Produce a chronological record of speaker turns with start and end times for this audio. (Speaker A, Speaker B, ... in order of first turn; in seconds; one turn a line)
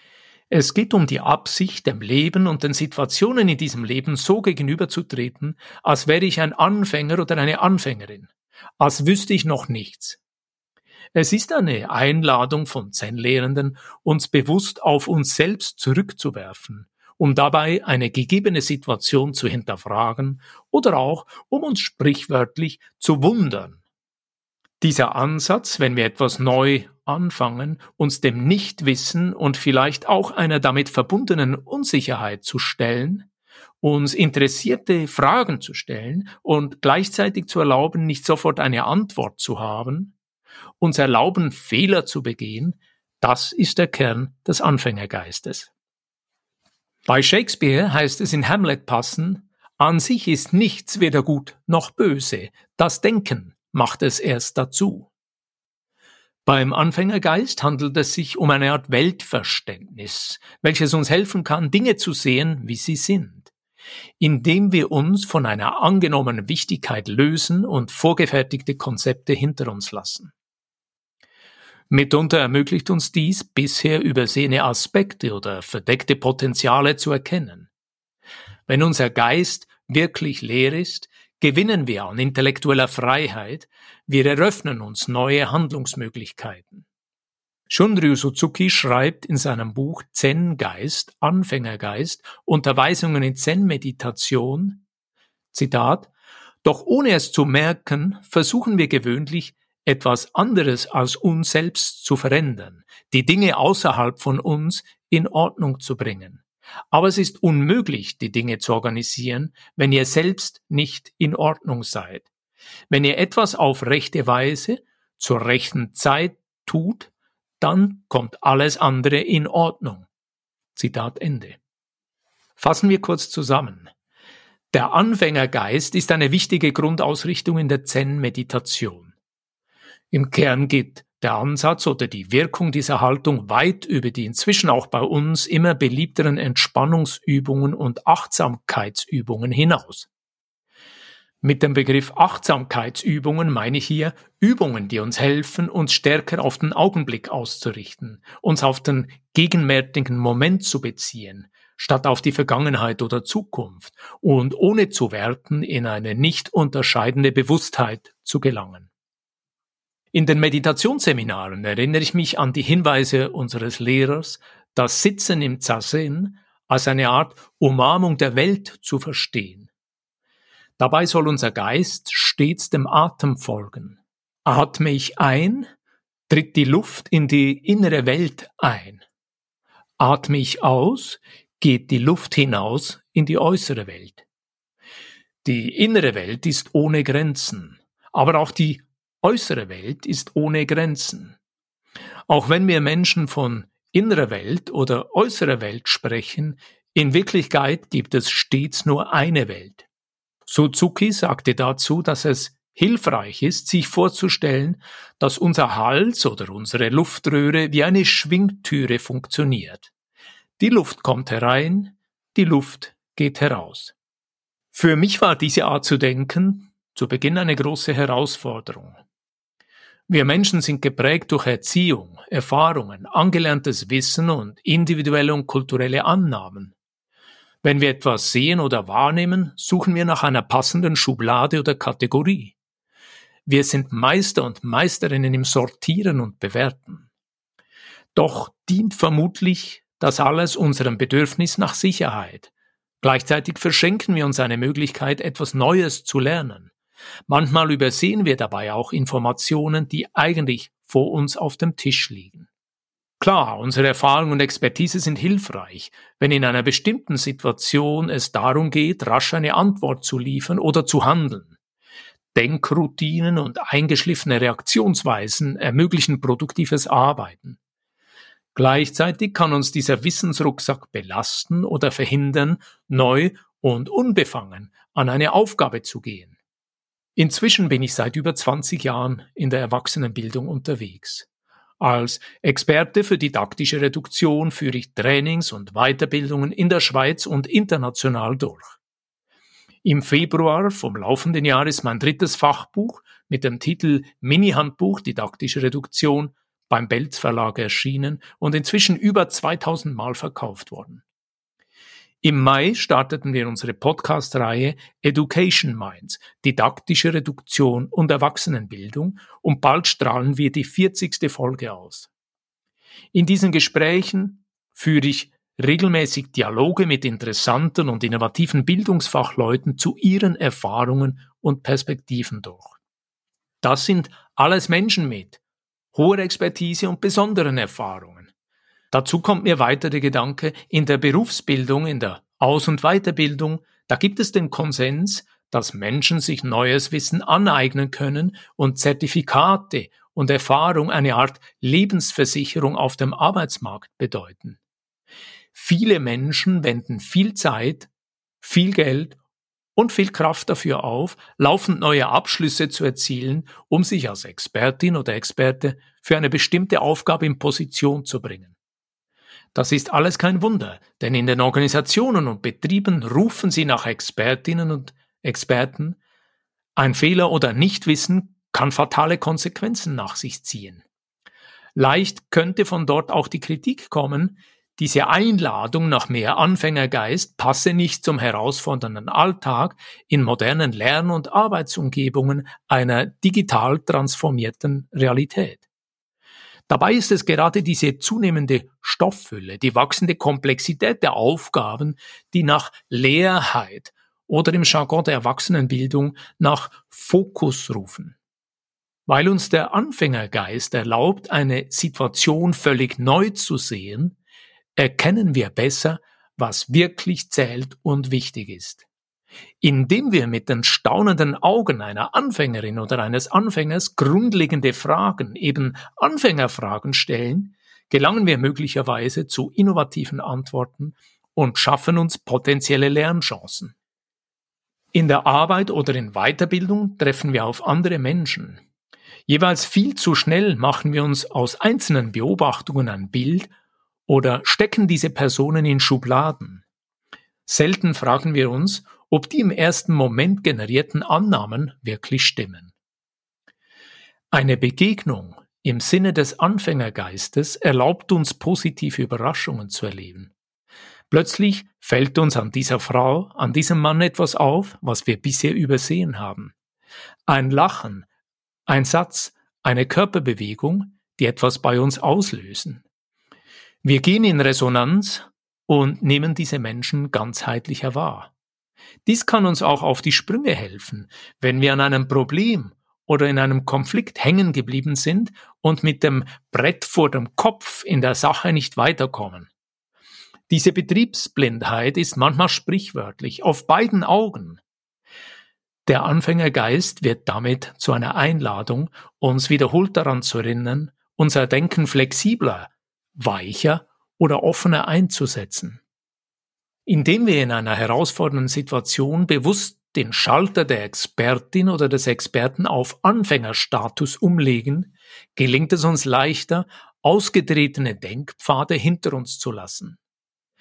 Speaker A: 0.5-10.2
Speaker A: 11.2-23.8
Speaker A: 24.8-33.3
Speaker A: 33.8-40.1
Speaker A: 40.8-45.7
Speaker A: 47.1-55.1
Speaker A: 56.5-63.5
Speaker A: 64.2-70.3
Speaker A: 71.9-77.7
Speaker A: 78.7-86.8
Speaker A: 87.7-94.8
Speaker A: 95.5-96.1
Speaker A: 96.6-112.3
Speaker A: 112.9-120.1
Speaker A: 120.8-121.6
Speaker A: 122.6-123.9
Speaker A: 124.7-129.1
Speaker A: 130.1-140.1
Speaker A: 141.4-158.9
Speaker A: 160.1-169.7
Speaker A: 170.8-175.7
Speaker A: 176.3-179.0
Speaker A: 180.0-184.2
Speaker A: 185.4-191.4
Speaker A: 192.3-199.9
Speaker A: 200.5-209.9
Speaker A: 210.6-213.9
Speaker A: 214.7-219.0
Speaker A: 220.1-226.8
Speaker A: 227.6-232.6
Speaker A: 233.5-237.1
Speaker A: 238.2-242.5
Speaker A: 243.0-246.7
Speaker A: 247.3-252.5
Speaker A: 253.2-261.6
Speaker A: 262.3-267.6
Speaker A: 268.6-276.4
Speaker A: 277.2-281.3
Speaker A: 281.8-288.8
Speaker A: 289.8-301.0
Speaker A: 302.2-312.1
Speaker A: 313.1-322.8
Speaker A: 323.6-325.4
Speaker A: 325.9-328.3
Speaker A: 328.9-344.6
Speaker A: 345.5-347.9
Speaker A: 348.4-349.2
Speaker A: 349.8-358.6
Speaker A: 359.5-366.0
Speaker A: 366.8-370.8
Speaker A: 371.8-385.6
Speaker A: 386.7-398.2
Speaker A: 399.1-404.2
Speaker A: 404.8-408.9
Speaker A: 409.6-423.8
Speaker A: 424.9-428.6
Speaker A: 429.3-433.5
Speaker A: 434.1-436.6
Speaker A: 437.5-442.7
Speaker A: 444.3-450.3
Speaker A: 451.1-456.5
Speaker A: 457.3-458.1
Speaker A: 458.7-462.8
Speaker A: 463.8-468.3
Speaker A: 469.1-479.5
Speaker A: 480.5-484.6
Speaker A: 485.9-495.8
Speaker A: 496.9-510.0